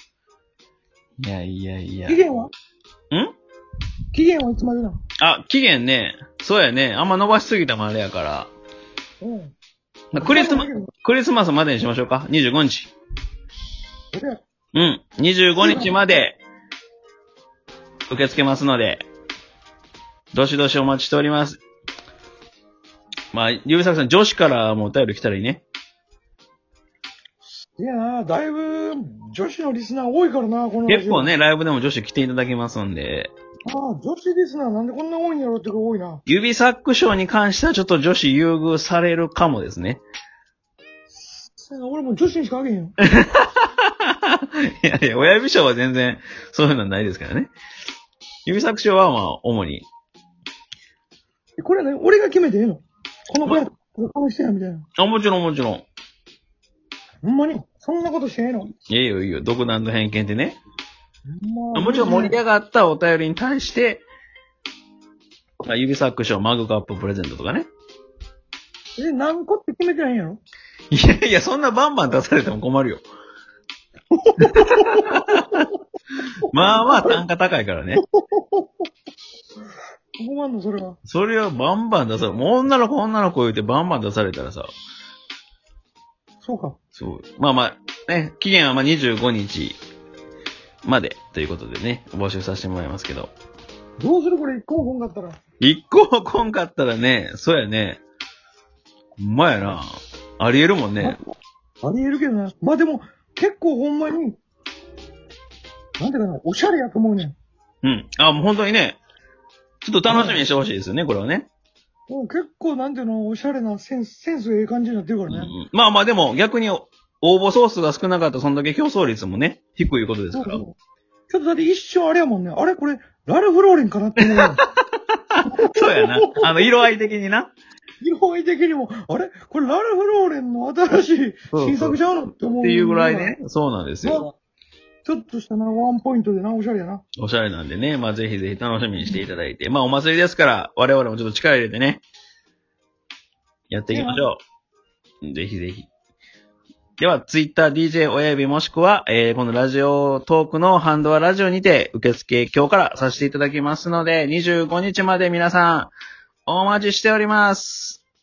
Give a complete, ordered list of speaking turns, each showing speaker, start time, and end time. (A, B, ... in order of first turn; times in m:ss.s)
0:01.2-0:02.2 A
0:02.1-0:02.5 B
0:04.1-0:05.0 B
0:05.2-0:08.5 A
0:09.2-0:09.6 B
0:10.1-0:12.9 A
0:10.2-0:10.9 B
0:14.1-0:14.4 B
0:14.7-0:16.4 A
0:15.6-0:15.9 B
0:18.1-0:19.1 A
0:20.3-0:21.6 A
0:23.3-0:25.6 A
0:27.4-0:31.3 B
0:30.9-0:33.3 A
0:33.7-0:36.2 B
0:36.3-0:40.0 A
0:41.1-0:43.0 B
0:43.0-0:47.5 A
0:48.5-0:49.9 A
0:51.6-0:54.9 B
0:55.0-0:55.9 A
0:57.2-0:58.7 B
0:58.9-1:00.6 A
1:01.3-1:02.4 B
1:01.7-1:04.0 A
1:05.6-1:07.7 A
1:09.0-1:10.4 B
1:10.9-1:13.0 A
1:14.1-1:15.6 B
1:14.5-1:15.7 A
1:16.5-1:18.0 A
1:16.6-1:17.2 B
1:18.0-1:18.7 B
1:20.2-1:21.0 B
1:21.0-1:24.7 A
1:26.4-1:26.8 B
1:27.0-1:29.8 A
1:30.8-1:33.3 A
1:34.0-1:35.4 B
1:35.6-1:38.0 A
1:39.2-1:41.2 A
1:41.8-1:44.4 B
1:46.0-1:47.3 B
1:47.8-1:49.0 A
1:49.8-1:51.5 A
1:50.1-1:50.4 B
1:52.1-1:55.5 B
1:55.3-2:00.6 A
2:00.3-2:00.8 B
2:01.3-2:04.6 B
2:04.3-2:04.8 A
2:05.3-2:07.5 A
2:05.4-2:06.9 B
2:08.0-2:13.4 B
2:11.5-2:12.0 A
2:12.6-2:14.2 A
2:14.0-2:14.3 B
2:15.0-2:17.0 B
2:17.2-2:22.0 A
2:23.7-2:24.4 A
2:23.9-2:24.3 B
2:25.2-2:25.9 A
2:27.0-2:35.9 A
2:36.5-2:38.0 A